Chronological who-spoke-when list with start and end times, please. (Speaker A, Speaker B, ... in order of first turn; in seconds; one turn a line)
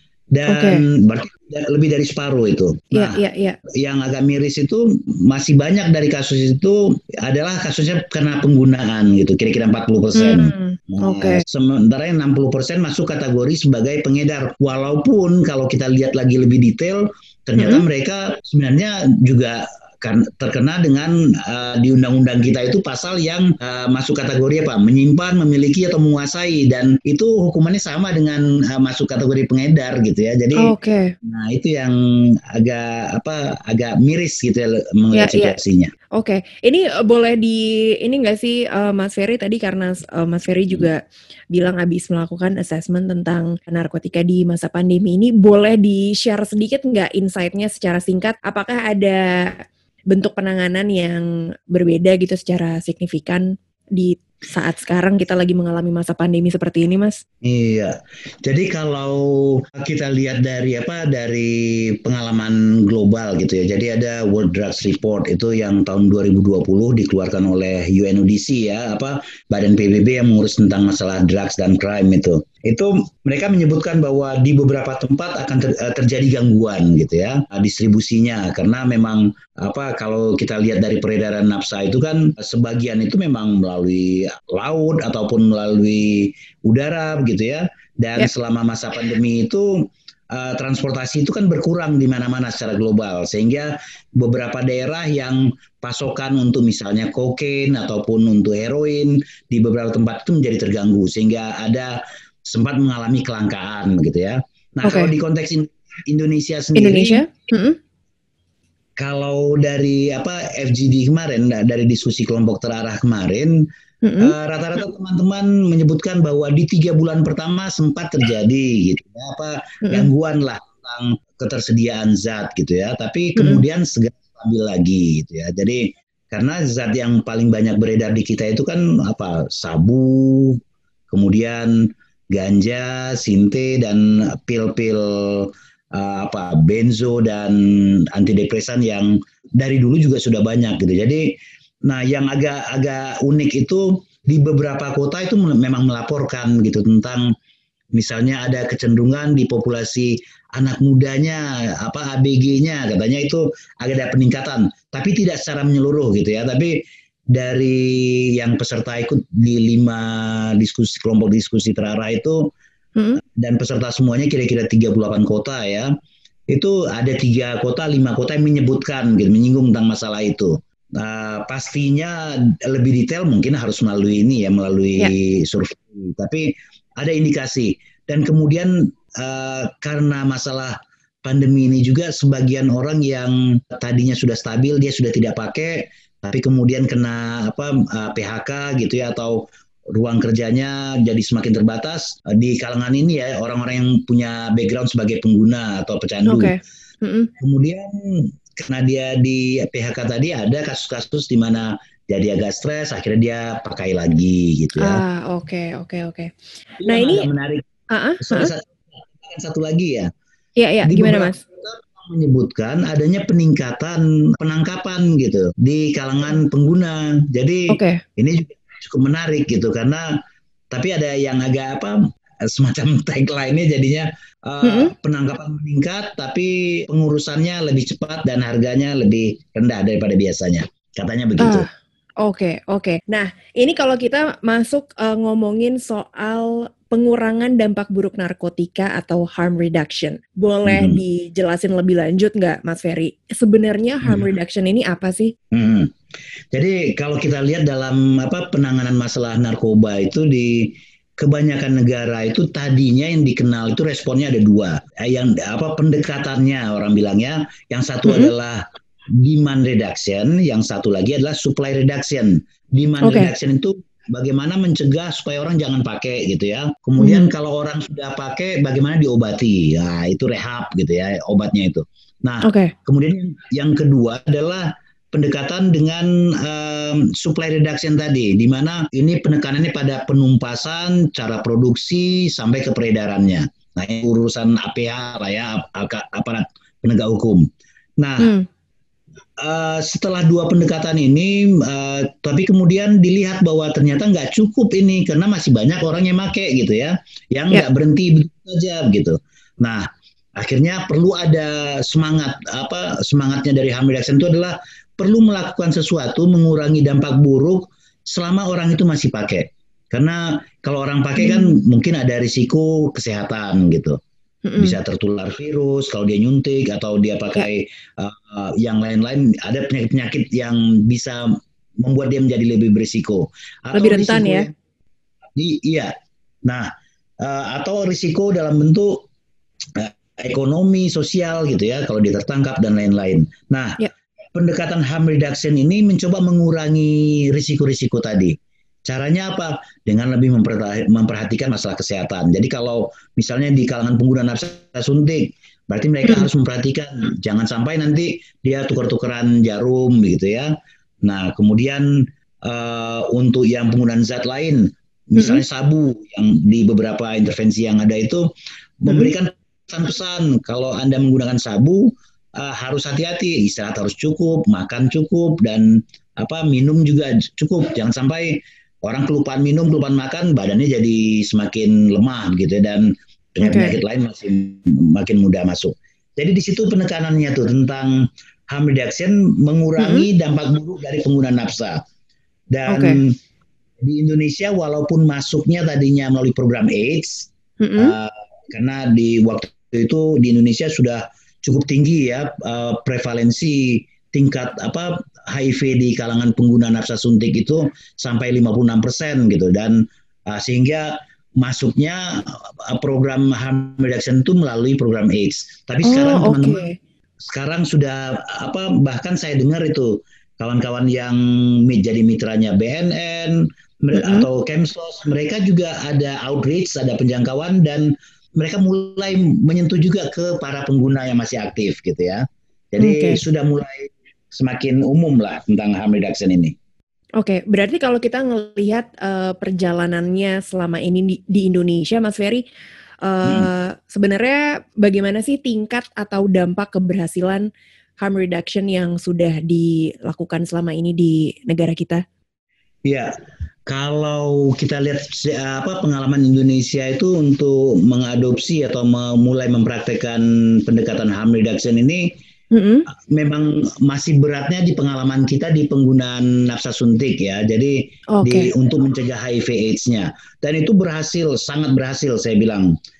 Speaker A: 0.3-30.7
Speaker B: 0.5-0.8
Speaker B: 2.9-3.6
Speaker B: 10.2-11.4
Speaker B: 17.6-17.8
Speaker B: 30.6-31.1
Speaker A: 31.2-35.9
Speaker B: 35.1-35.5
Speaker B: 36.2-41.0
Speaker B: 41.5-57.2
Speaker A: 57.4-107.2
Speaker B: 104.8-105.1
Speaker B: 106.8-107.8
Speaker A: 109.0-113.6
Speaker B: 114.0-114.3
Speaker A: 114.2-131.8
Speaker B: 119.8-120.1
Speaker B: 123.4-123.6
Speaker A: 132.3-141.3
Speaker A: 141.9-147.3
Speaker A: 147.9-156.8
Speaker A: 157.3-162.5
Speaker B: 163.0-163.2
Speaker A: 163.2-165.9
Speaker A: 166.5-196.5
Speaker B: 196.3-197.3
Speaker A: 197.4-205.0
Speaker B: 204.8-206.3
Speaker A: 206.8-207.7
Speaker B: 206.9-207.3
Speaker B: 207.9-208.5
Speaker A: 208.2-210.1
Speaker B: 210.6-211.4
Speaker A: 210.8-220.1
Speaker B: 217.7-218.0
Speaker A: 220.7-231.7
Speaker B: 224.6-224.9
Speaker B: 231.4-231.7
Speaker B: 232.2-245.3
Speaker A: 240.7-241.0
Speaker A: 244.0-244.3
Speaker A: 245.5-245.9
Speaker A: 246.5-258.6
Speaker B: 258.1-258.3
Speaker A: 259.2-287.5
Speaker B: 263.0-263.3
Speaker B: 267.0-267.3
Speaker B: 272.4-272.7
Speaker A: 288.0-288.3
Speaker B: 288.2-288.5
Speaker A: 289.4-314.0
Speaker B: 311.2-311.6
Speaker B: 314.4-314.8
Speaker A: 314.6-324.5
Speaker B: 323.8-324.5
Speaker A: 325.4-325.9
Speaker A: 326.4-326.7
Speaker A: 327.2-329.1
Speaker A: 329.8-333.8
Speaker A: 334.4-350.5
Speaker A: 351.0-358.2
Speaker B: 355.2-355.4
Speaker A: 358.8-381.8
Speaker B: 373.4-373.8
Speaker B: 379.8-380.1
Speaker A: 382.5-383.2
Speaker B: 382.7-383.0
Speaker A: 383.8-406.6
Speaker B: 387.6-388.0
Speaker B: 405.9-406.8
Speaker A: 407.2-426.6
Speaker B: 413.9-414.3
Speaker B: 422.8-423.2
Speaker B: 427.2-432.4
Speaker B: 433.0-437.5
Speaker A: 433.2-433.5
Speaker B: 438.0-442.0
Speaker A: 442.9-443.1
Speaker A: 443.7-452.1
Speaker B: 452.5-452.9
Speaker A: 453.1-462.7
Speaker B: 458.1-458.5